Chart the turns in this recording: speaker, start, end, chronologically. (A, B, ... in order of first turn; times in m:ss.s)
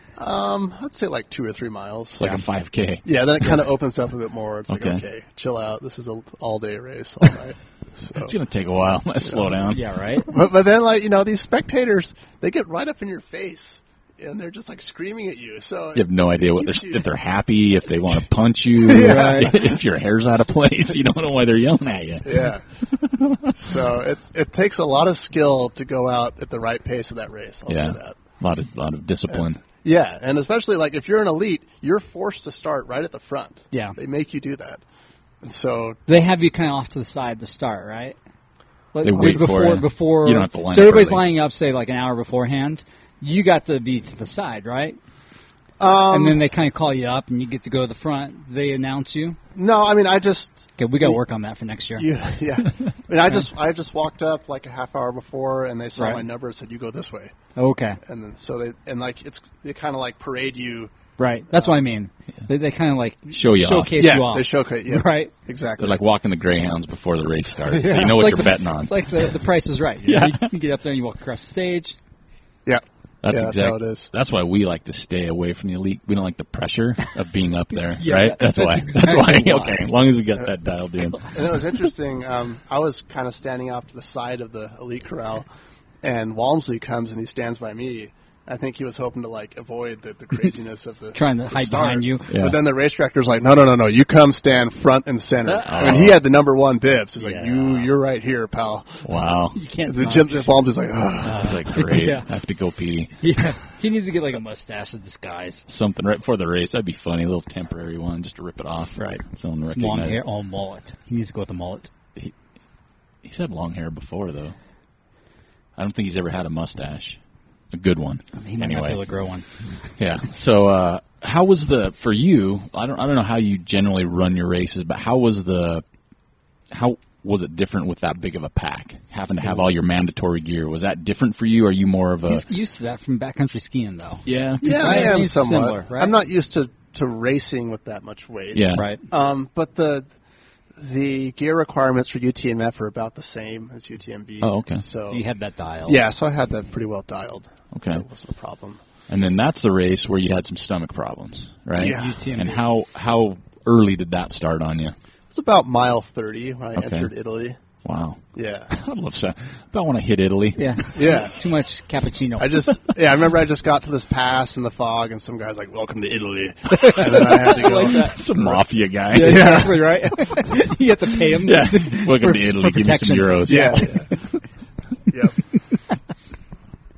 0:00.2-0:02.4 A
0:02.2-0:03.6 B
0:03.0-0:08.3 A
0:04.7-0:05.0 B
0:08.2-0:09.8 B
0:09.3-0:09.6 A
0:09.7-0:10.3 C
0:10.2-0:17.0 A
0:15.9-0:23.8 B
0:18.8-0:19.7 A
0:18.9-0:19.5 C
0:22.2-0:22.6 A
0:23.5-0:28.2 A
0:27.7-0:29.6 B
0:29.3-0:34.8 A
0:33.7-0:34.0 C
0:35.4-0:36.0 A
0:36.1-0:38.2 C
0:38.9-0:45.0 C
0:39.0-0:41.2 B
0:45.8-0:46.4 A
0:46.1-0:49.4 C
0:49.5-0:51.2 A
0:50.8-0:52.0 C
0:52.0-0:57.3 A
0:56.0-0:56.2 C
0:57.6-0:58.0 C
0:58.0-1:00.9 A
1:01.2-1:05.3 C
1:01.5-1:01.8 A
1:03.3-1:04.1 B
1:03.9-1:06.0 A
1:05.8-1:09.3 B
1:07.7-1:08.3 A
1:07.8-1:12.0 C
1:10.0-1:10.5 B
1:12.6-1:14.1 A
1:13.2-1:21.6 B
1:17.9-1:19.8 C
1:21.2-1:25.5 A
1:26.0-1:39.1 A
1:31.1-1:32.3 C
1:32.3-1:32.6 B
1:35.4-1:36.1 C
1:35.6-1:36.2 B
1:37.2-1:37.9 C
1:39.0-1:39.6 B
1:39.5-1:40.6 C
1:39.8-1:41.9 A
1:41.2-1:42.3 C
1:41.3-1:43.2 B
1:43.2-1:45.6 C
1:45.7-1:50.2 B
1:49.0-1:51.9 C
1:53.2-1:54.5 B
1:55.8-1:57.2 B
1:57.7-1:59.0 B
1:58.3-1:59.9 C
2:00.0-2:05.8 B
2:06.7-2:12.4 B
2:12.2-2:16.2 C
2:14.2-2:15.3 B
2:14.6-2:20.1 A
2:18.5-2:18.9 B
2:18.7-2:19.0 C
2:20.8-2:25.2 A
2:24.4-2:24.8 B
2:25.1-2:26.0 C
2:25.8-2:28.8 A
2:27.7-2:28.0 B
2:29.1-2:35.0 B
2:31.8-2:32.6 C
2:31.8-2:32.2 A
2:35.3-2:37.6 A
2:36.8-2:37.1 B
2:37.8-2:41.0 B
2:38.3-2:38.7 A
2:40.6-2:42.7 C
2:40.9-2:41.4 A
2:42.4-2:50.1 A
2:46.7-2:48.2 C
2:47.1-2:49.8 B
2:49.1-2:54.4 C
2:51.2-2:54.0 B
2:53.5-2:54.2 A
2:55.1-2:55.4 A